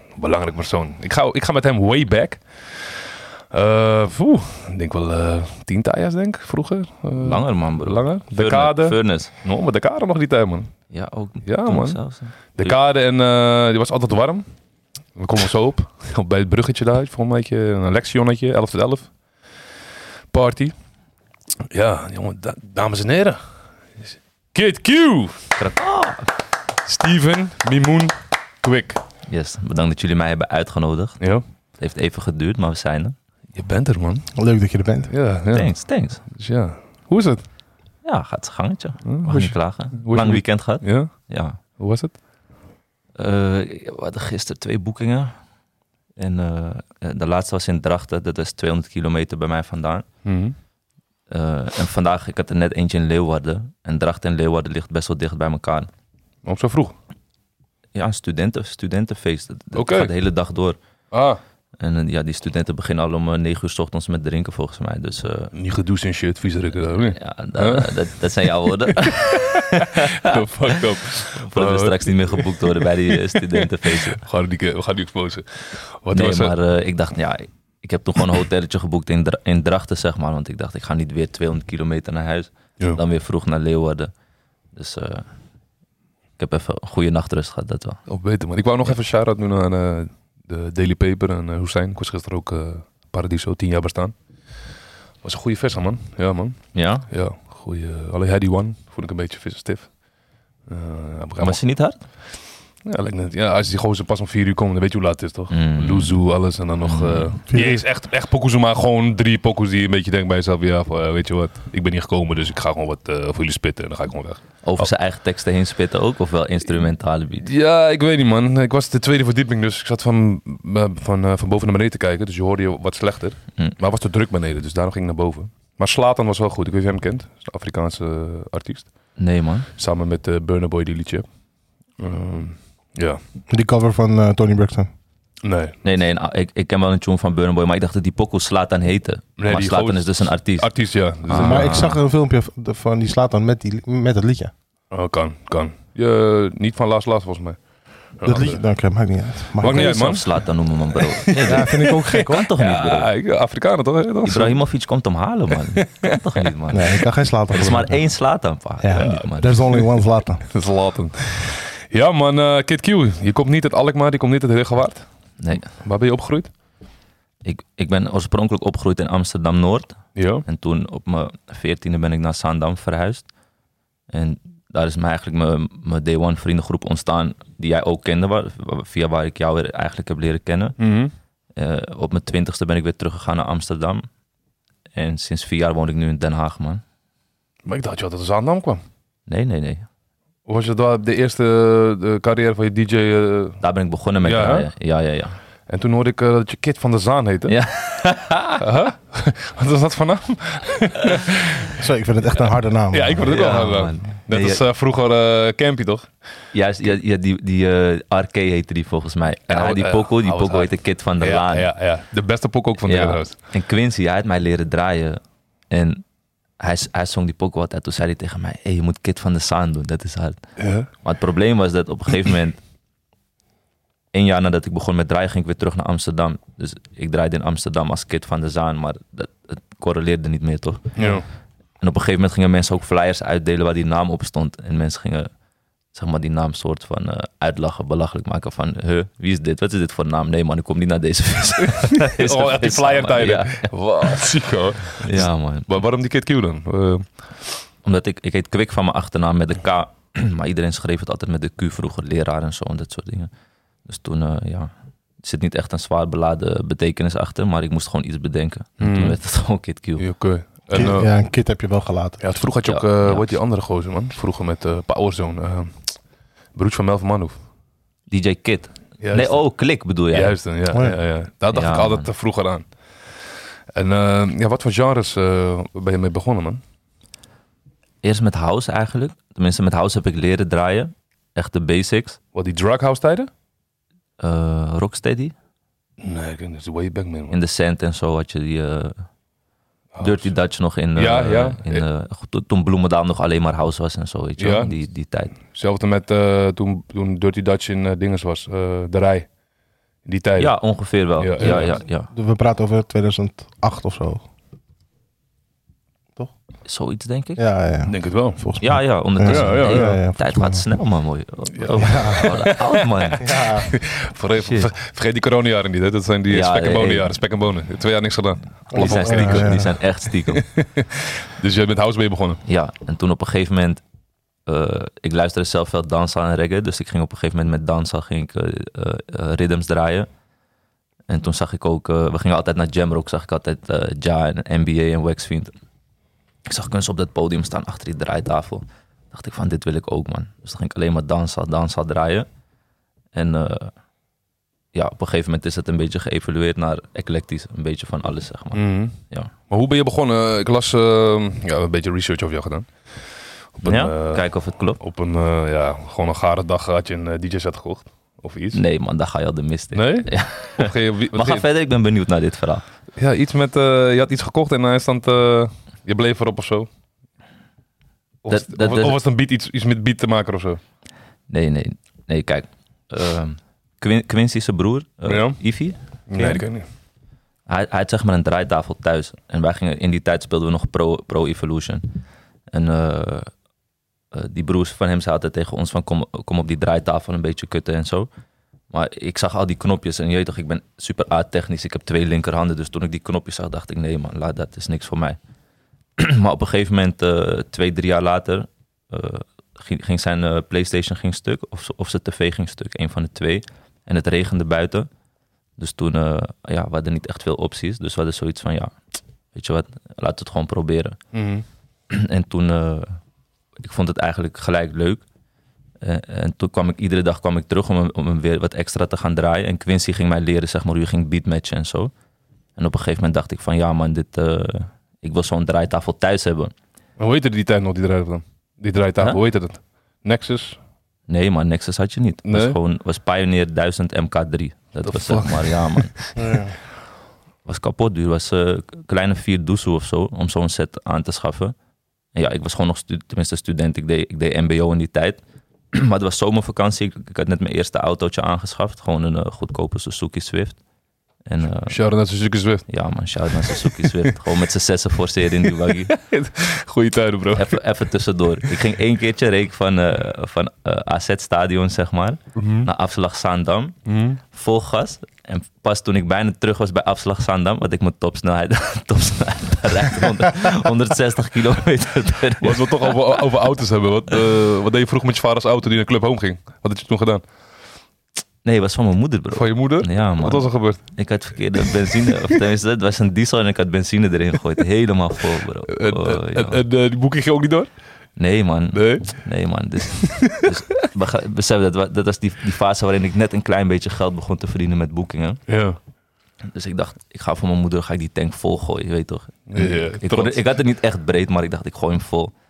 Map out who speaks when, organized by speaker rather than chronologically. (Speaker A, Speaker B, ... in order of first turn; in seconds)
Speaker A: 0.2-10.7, 11.4-12.0, 12.6-14.4, 15.2-19.1, 20.3-20.8, 21.7-23.4, 24.0-25.6, 26.9-29.0, 31.2-31.4, 33.5-34.3, 35.1-35.7, 36.3-37.4, 39.0-41.1, 41.7-42.2, 50.2-50.5, 56.4-56.9, 59.7-60.1, 61.1-61.4, 65.5-76.5, 88.1-94.2, 95.2-99.9, 100.7-101.6, 102.8-114.8, 117.4-128.9, 129.8-131.3, 132.0-133.2, 135.4-135.8, 139.4-141.9, 144.9-147.6, 148.2-148.6, 149.6-154.6, 155.5-156.1, 159.0-159.9, 160.5-165.1, 165.6-166.5, 170.2-170.4, 180.8-181.1, 187.7-188.8, 190.5-193.6, 194.2-194.7, 195.7-197.6, 198.6-201.8, 202.9-206.1, 209.5-213.3, 220.6-220.9, 231.0-231.2, 241.8-247.3, 258.8-259.2, 260.0-261.1, 262.2-266.0, 266.6-267.4, 269.0-269.4, 270.1-276.6, 282.3-283.3, 286.0-287.4, 289.9-290.4, 290.9-291.8, 294.4-294.8, 295.4-299.3, 300.1-300.5, 301.2-301.8, 307.9-308.4, 309.2-310.0, 311.6-319.7, 320.3-322.4, 348.5-349.0, 349.5-352.9, 353.6-354.3, 354.8-358.6, 359.7-361.5, 363.0-366.7, 368.2-370.6, 375.1-375.4, 376.1-376.7, 411.1-411.4, 427.0-430.6, 432.2-432.6, 434.8-436.2, 451.7-452.7, 453.3-454.1, 455.4-457.6, 462.4-462.7, 463.9-464.2, 472.4-477.2, 479.3-480.8, 481.6-482.4, 485.7-487.7, 488.7-489.1, 489.9-490.5, 495.5-495.8, 499.5-500.4
Speaker B: 7.2-9.3, 10.9-12.8, 25.6-26.3, 29.3-31.2, 31.8-33.2, 35.5-36.2, 38.0-41.6, 43.2-45.4, 46.2-50.1, 51.3-55.9, 58.0-60.8, 61.8-65.5, 67.1-70.8, 71.3-74.2, 76.1-84.1, 84.7-85.3, 86.4-88.0, 96.7-97.1, 101.4-102.0, 105.5-106.2, 106.8-107.3, 114.6-117.5, 129.2-129.7, 135.8-142.0, 149.6-153.1, 154.2-159.6, 165.4-165.7, 167.4-173.3, 174.1-180.8, 181.6-184.1, 185.0-186.8, 189.3-189.8, 193.6-195.4, 197.5-198.6, 203.3-204.6, 206.5-211.7, 212.9-216.0, 216.6-220.4, 221.0-222.6, 224.1-231.2, 231.8-235.3, 235.9-244.2, 245.0-245.7, 247.8-253.3, 253.9-260.0, 262.6-263.4, 268.1-270.4, 271.5-272.1, 278.0-282.2, 284.2-285.3, 287.3-289.0, 290.0-295.3, 300.4-302.1, 306.7-307.4, 308.6-313.3, 314.4-314.7, 316.3-317.1, 318.7-320.4, 322.5-323.8, 324.5-330.1, 331.1-335.5, 336.5-342.3, 343.1-343.7, 344.7-349.3, 353.6-354.8, 358.5-362.6, 368.3-369.0, 371.3-376.4, 377.5-381.9, 382.5-383.3, 384.1-388.1, 388.7-395.2, 396.0-404.9, 405.6-408.8, 409.3-411.0, 411.9-413.0, 413.6-415.0, 415.8-421.9, 422.6-426.5, 431.1-435.9, 437.4-441.6, 442.1-445.2, 445.7-450.6, 451.3-451.8, 452.7-455.9, 457.3-463.8, 464.3-473.2, 478.4-486.6, 488.2-495.4, 496.5-502.3
Speaker C: 34.4-35.1, 107.5-107.8, 133.5-134.9, 141.3-144.5, 148.2-150.0, 151.4-152.5, 156.7-158.0, 158.8-160.5, 201.7-203.2, 260.7-262.4, 301.4-304.2, 307.4-310.7, 311.8-312.3, 313.2-313.7, 318.7-319.8, 436.2-436.6